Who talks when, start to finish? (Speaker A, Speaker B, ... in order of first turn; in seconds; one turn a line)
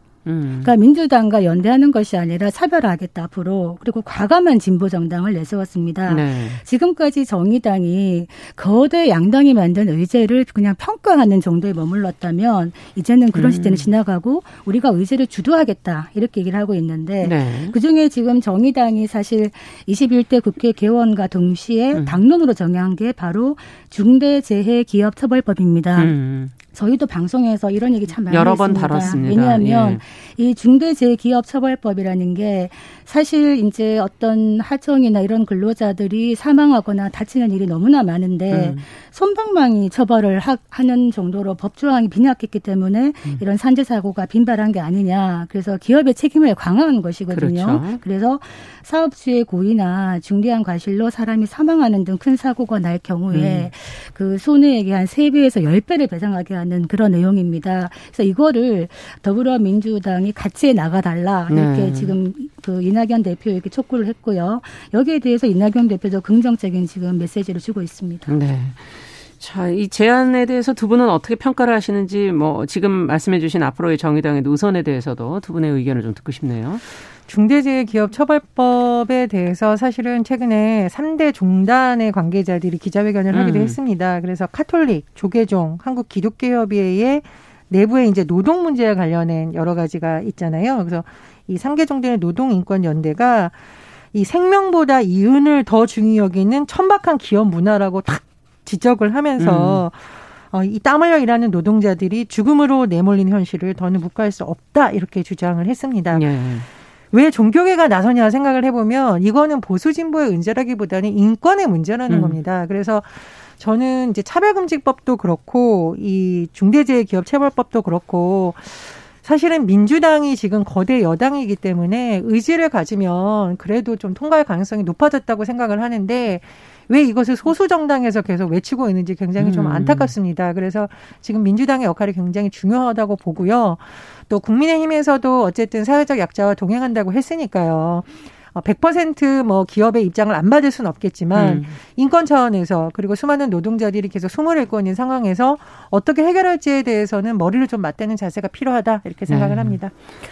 Speaker A: 0.2-0.7
Speaker B: 0.6-26.1
Speaker A: 6.1-6.6
Speaker A: 13.3-13.9
Speaker A: 17.2-17.7
Speaker A: 21.9-22.2
Speaker A: 25.9-26.5
Speaker B: 26.7-68.3
Speaker A: 28.3-30.0
Speaker A: 38.5-38.8
Speaker A: 47.3-48.0
Speaker A: 53.3-53.7
Speaker A: 61.5-62.1
Speaker A: 68.3-76.8
Speaker C: 77.3-93.5
Speaker A: 83.3-83.7
Speaker C: 94.1-106.2
Speaker A: 99.4-99.8
Speaker A: 106.1-106.7
Speaker C: 107.1-149.9
Speaker A: 112.1-112.4
Speaker A: 129.4-130.1
Speaker A: 141.3-141.8
Speaker A: 149.3-149.8